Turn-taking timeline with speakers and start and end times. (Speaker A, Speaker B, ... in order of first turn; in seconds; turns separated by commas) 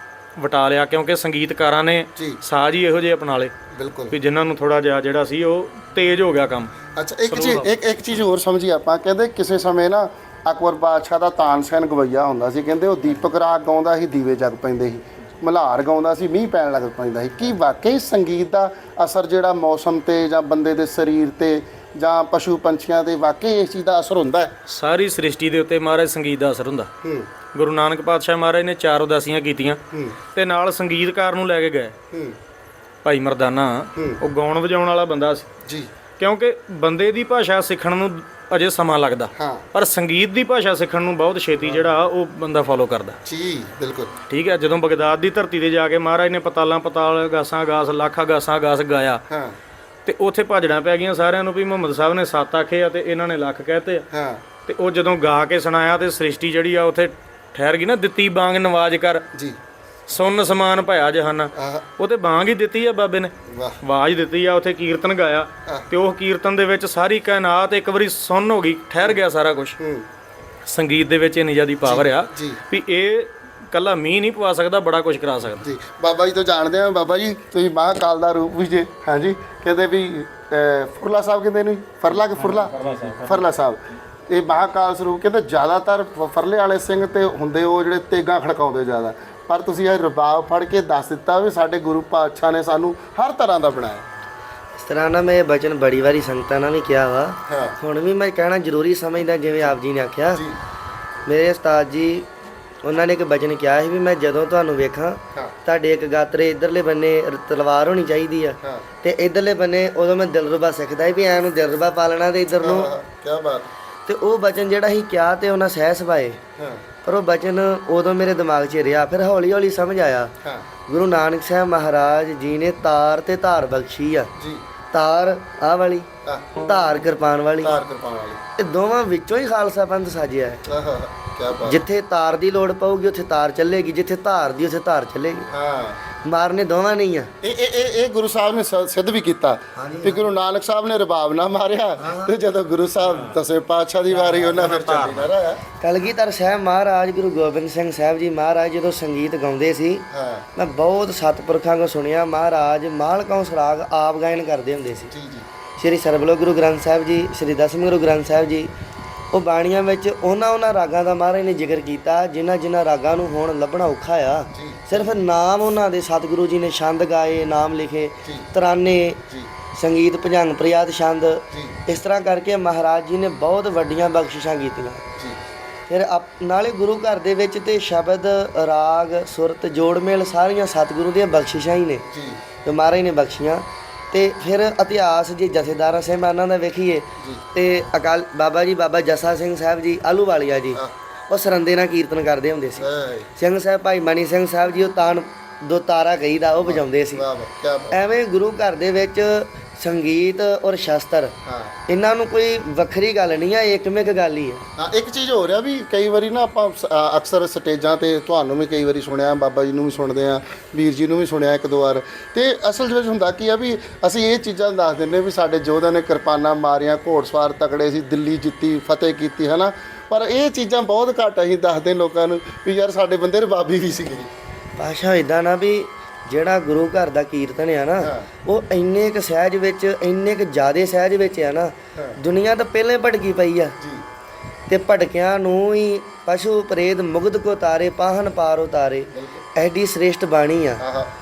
Speaker A: 0.4-3.5, Speaker B: 3.7-4.2, Speaker A: 4.1-6.8, Speaker B: 7.0-24.6, Speaker A: 7.3-7.7, Speaker A: 24.7-26.9, Speaker B: 27.0-27.3, Speaker A: 27.5-29.8, Speaker B: 29.9-30.2, Speaker A: 30.4-31.9, Speaker B: 32.1-32.4, Speaker A: 33.0-35.5, Speaker B: 34.0-34.2, Speaker B: 35.6-35.9, Speaker A: 36.2-43.2, Speaker B: 39.4-39.7, Speaker B: 43.2-44.1, Speaker A: 44.3-49.2, Speaker B: 49.3-49.6, Speaker A: 50.0-54.0, Speaker B: 54.1-54.4, Speaker A: 54.7-59.2, Speaker B: 59.3-59.6, Speaker A: 60.1-69.8, Speaker B: 61.5-61.9, Speaker B: 63.5-63.8, Speaker B: 69.8-70.1, Speaker A: 70.7-75.7, Speaker B: 71.8-72.6, Speaker B: 75.6-94.1, Speaker A: 82.3-83.5, Speaker C: 94.8-100.4, Speaker B: 97.5-97.8, Speaker C: 101.3-102.3, Speaker C: 102.8-112.9, Speaker B: 112.6-113.7, Speaker C: 114.1-116.4, Speaker B: 116.6-116.8, Speaker C: 117.0-120.3, Speaker B: 120.4-120.7, Speaker C: 120.9-124.3, Speaker B: 124.4-124.6, Speaker C: 124.9-127.8, Speaker B: 127.6-128.4, Speaker C: 128.6-130.6, Speaker B: 130.7-131.8, Speaker C: 131.7-135.5, Speaker B: 135.5-136.0, Speaker C: 136.2-137.3, Speaker B: 137.4-145.6, Speaker C: 139.8-140.2, Speaker C: 142.0-142.3, Speaker A: 144.1-145.3, Speaker C: 145.8-155.1, Speaker B: 150.1-150.5, Speaker B: 155.1-155.5, Speaker C: 155.8-158.7, Speaker C: 159.3-175.1, Speaker B: 164.6-165.2, Speaker B: 171.5-171.8, Speaker C: 175.9-182.1, Speaker B: 182.1-182.4, Speaker C: 182.7-197.2, Speaker B: 187.2-187.4, Speaker B: 192.8-193.3, Speaker B: 196.6-198.0, Speaker C: 197.9-201.3, Speaker B: 201.4-201.8, Speaker C: 201.9-204.6, Speaker B: 204.8-224.3, Speaker C: 224.8-233.8, Speaker B: 228.0-228.3, Speaker B: 233.8-234.0, Speaker C: 234.7-240.8, Speaker B: 239.1-239.5, Speaker B: 240.8-241.1